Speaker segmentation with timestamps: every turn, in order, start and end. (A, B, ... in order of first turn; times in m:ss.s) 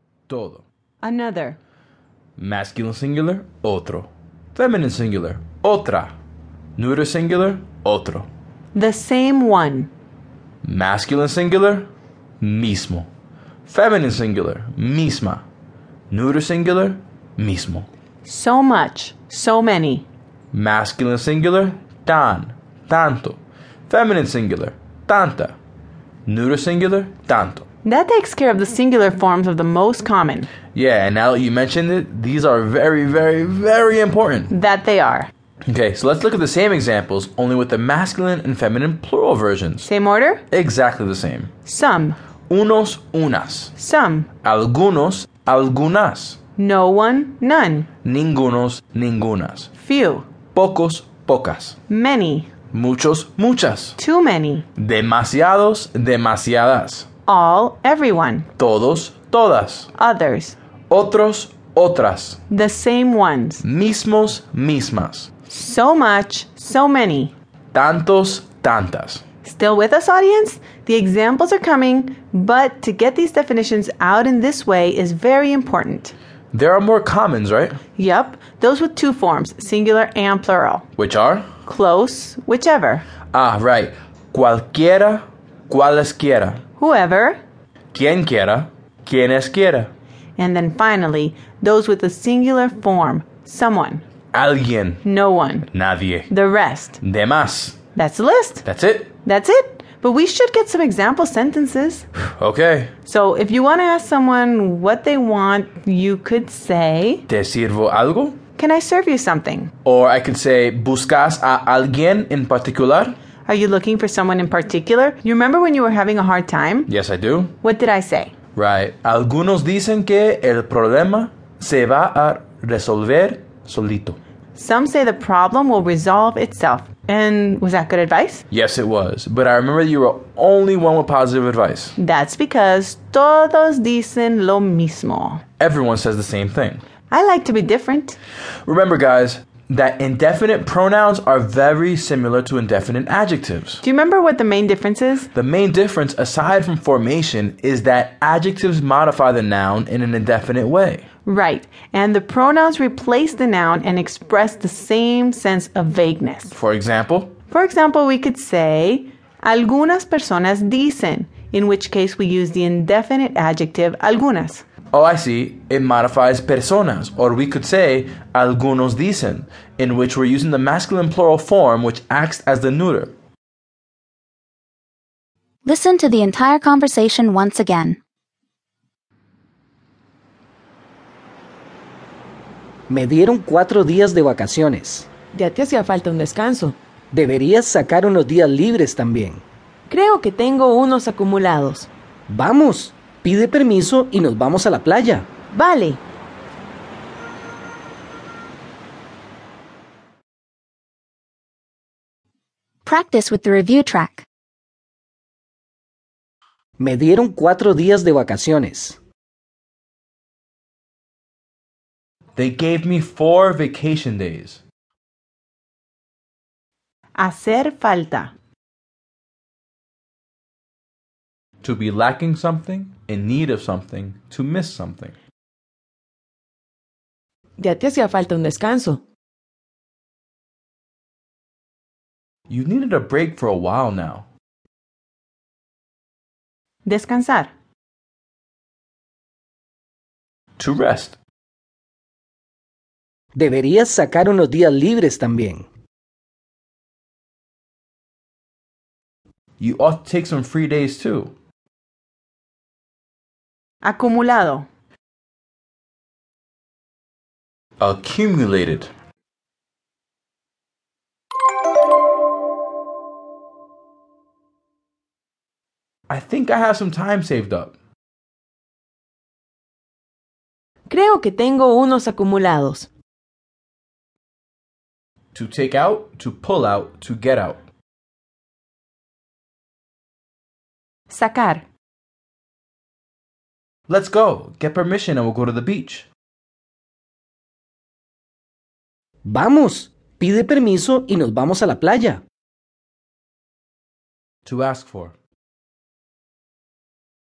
0:00.3-0:00.6 A
0:01.0-0:01.6 B
0:02.4-0:06.1 A
0:06.8-0:08.3 A
0:08.7-0:09.9 B
0:10.6-0:11.9 A
0:12.4-0:13.1 A
0:13.6-0:15.4 A
0:16.1-0:17.9 A
0:18.2-0:20.0 B
0:20.5-0:25.6 A
0:26.3-0:27.6 A
0:27.8-0:30.5 B
0:30.7-0:34.5 A
0:34.5-0:35.3 B
0:35.7-0:39.9 A
0:39.8-0:40.4 B
0:40.5-0:41.5 A
0:41.7-0:42.2 B
0:42.5-0:43.7 A
0:43.8-0:44.3 B
0:44.4-0:46.4 A
0:46.6-0:47.9 B
0:48.0-0:49.7 A
0:49.8-0:50.3 B
0:50.5-0:51.8 A
0:51.9-0:52.5 B
0:52.7-0:54.0 A
0:54.0-0:54.7 B
0:54.8-0:57.0 A
0:57.3-0:58.4 B
0:58.6-0:59.9 A
1:00.0-1:00.5 B
1:00.9-1:02.4 A
1:02.5-1:03.6 B
1:03.6-1:05.3 A
1:05.5-1:07.3 B
1:07.7-1:09.2 A
1:09.4-1:16.1 B
1:16.5-1:17.8 A
1:18.0-1:20.8 B
1:21.0-1:21.5 A
1:21.6-1:23.0 B
1:23.3-1:26.6 A
1:26.8-1:27.4 B
1:27.9-1:29.9 A
1:30.4-1:34.0 B
1:34.3-1:35.0 A
1:35.0-1:35.7 B
1:35.7-1:36.3 A
1:36.3-1:37.0 B
1:37.0-1:37.8 A
1:38.0-1:38.6 B
1:38.6-1:39.1 A
1:39.2-1:42.0 B
1:42.4-1:42.9 A
1:43.1-1:47.2 B
1:47.3-1:48.4 A
1:48.6-1:49.7 B
1:49.8-1:53.2 A
1:53.5-1:56.9 B
1:56.9-1:57.5 A
1:57.6-1:58.3 B
1:58.6-2:04.2 A
2:04.6-2:08.4 B
2:08.5-2:12.0 A
2:12.0-2:15.4 B
2:15.6-2:16.8 A
2:17.1-2:18.2 B
2:18.7-2:23.8 A
2:23.8-2:25.3 B
2:25.3-2:31.0 A
2:31.2-2:36.5 B
2:36.5-2:37.3 A
2:37.5-2:44.6 B
2:44.9-2:53.1 A
2:55.7-2:58.0 C
3:02.9-3:05.1 D
3:05.3-3:06.8 E
3:07.1-3:09.4 D
3:09.9-3:11.9 E
3:12.3-3:15.3 D
3:15.5-3:16.0 E
3:22.8-3:24.2 C
3:26.8-3:29.0 D
3:32.4-3:34.6 A
3:37.2-3:38.3 B
3:41.6-3:45.1 A
3:47.6-3:49.0 E
3:52.5-3:54.2 A
3:56.8-3:57.5 B
4:00.6-4:01.2 A
4:03.3-4:05.6 D
4:09.6-4:11.3 A
4:13.8-4:14.7 B
4:17.8-4:18.9 A
4:26.1-4:27.7 A
4:30.9-4:32.9 E
4:35.3-4:37.6 A
4:41.1-4:41.6 B
4:43.9-4:46.1 A
4:49.2-4:52.2 D
4:54.4-4:55.1 A